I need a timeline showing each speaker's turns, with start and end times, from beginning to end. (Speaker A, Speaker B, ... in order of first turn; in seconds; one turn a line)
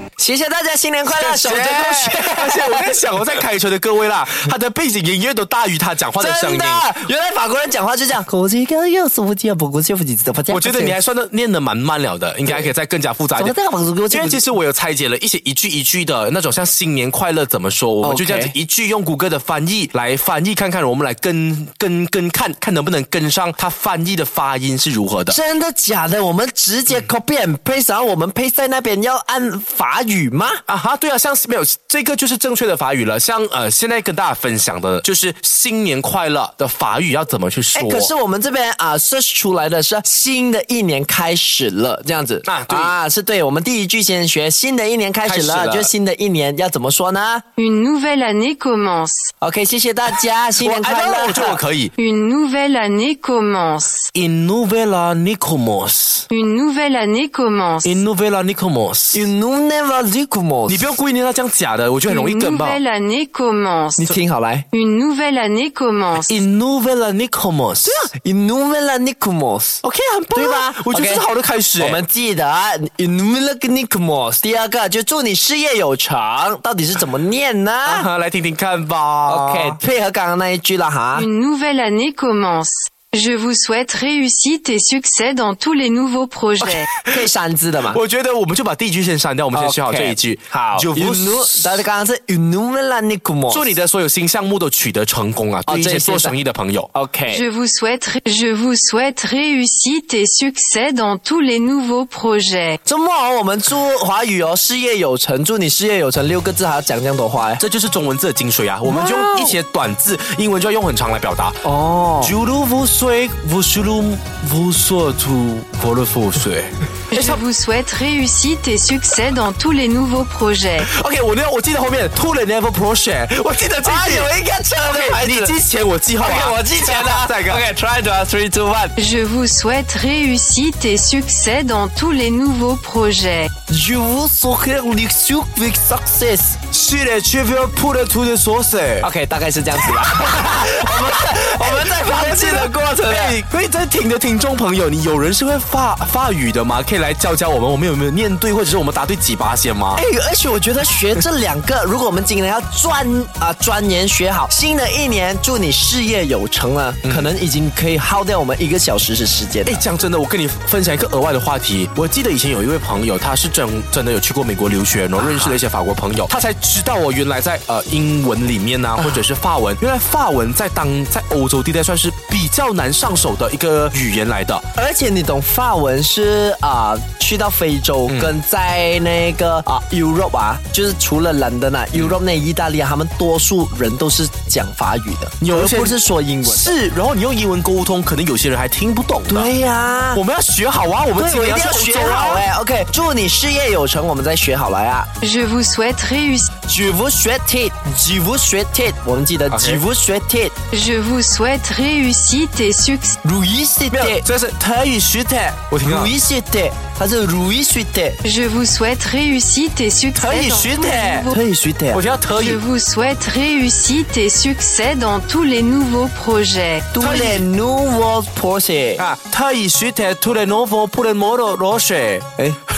Speaker A: 0.2-3.0
Speaker B: 1.1-6.9
Speaker A: 6.2-11.0
Speaker B: 10.5-13.5
Speaker A: 13.3-14.4
Speaker B: 14.1-25.4
Speaker A: 18.0-18.5
Speaker A: 25.3-30.6
Speaker B: 30.7-38.1
Speaker A: 37.7-47.4
Speaker B: 42.4-43.0
Speaker B: 45.2-45.9
Speaker C: 47.6-49.3
Speaker A: 49.4-51.6
Speaker B: 50.6-51.9
Speaker C: 52.0-54.1
Speaker B: 54.1-56.3
Speaker C: 56.3-58.0
Speaker B: 57.8-59.3
Speaker A: 59.1-60.9
Speaker B: 60.7-62.8
Speaker C: 62.1-64.1
Speaker A: 64.0-64.7
Speaker C: 64.7-66.4
Speaker B: 66.2-68.1
Speaker A: 67.9-69.8
Speaker B: 69.8-72.0
Speaker A: 70.3-71.3
Speaker A: 71.8-78.1
Speaker B: 77.9-79.8
Speaker A: 79.2-81.3
Speaker C: 81.2-86.9
Speaker B: 86.6-87.3
Speaker A: 87.0-88.0
Speaker B: 87.9-91.8
Speaker A: 89.5-93.8
Speaker B: 93.5-96.9
Speaker A: 95.7-96.4
Speaker A: 96.9-97.4
Speaker C: 97.3-102.8
Speaker A: 102.8-107.6
Speaker B: 107.6-111.6
Speaker A: 108.8-109.6
Speaker A: 111.6-112.3
Speaker B: 112.2-117.4
Speaker C: 117.1-120.9
Speaker B: 120.8-124.3
Speaker A: 123.8-125.6
Speaker B: 124.9-127.7
Speaker A: 126.2-128.9
Speaker C: 129.0-133.5
Speaker A: 133.7-136.6
Speaker B: 136.7-139.1
Speaker A: 139.0-143.4
Speaker B: 139.9-150.0
Speaker A: 149.9-159.8
Speaker B: 157.0-157.3
Speaker B: 159.7-174.6
Speaker A: 174.8-186.8
Speaker B: 178.1-178.3
Speaker B: 185.4-189.5
Speaker A: 189.3-190.2
Speaker B: 190.1-192.4
Speaker A: 191.2-195.1
Speaker C: 195.2-196.5
Speaker A: 196.7-200.6
Speaker B: 199.5-199.8
Speaker C: 200.7-203.2
Speaker A: 203.2-204.2
Speaker B: 203.9-206.1
Speaker A: 205.8-208.2
Speaker C: 208.2-211.3
Speaker B: 210.2-211.3
Speaker A: 211.2-212.1
Speaker B: 211.9-212.6
Speaker C: 212.3-216.9
Speaker A: 216.9-219.1
Speaker B: 217.0-217.4
Speaker B: 219.0-222.4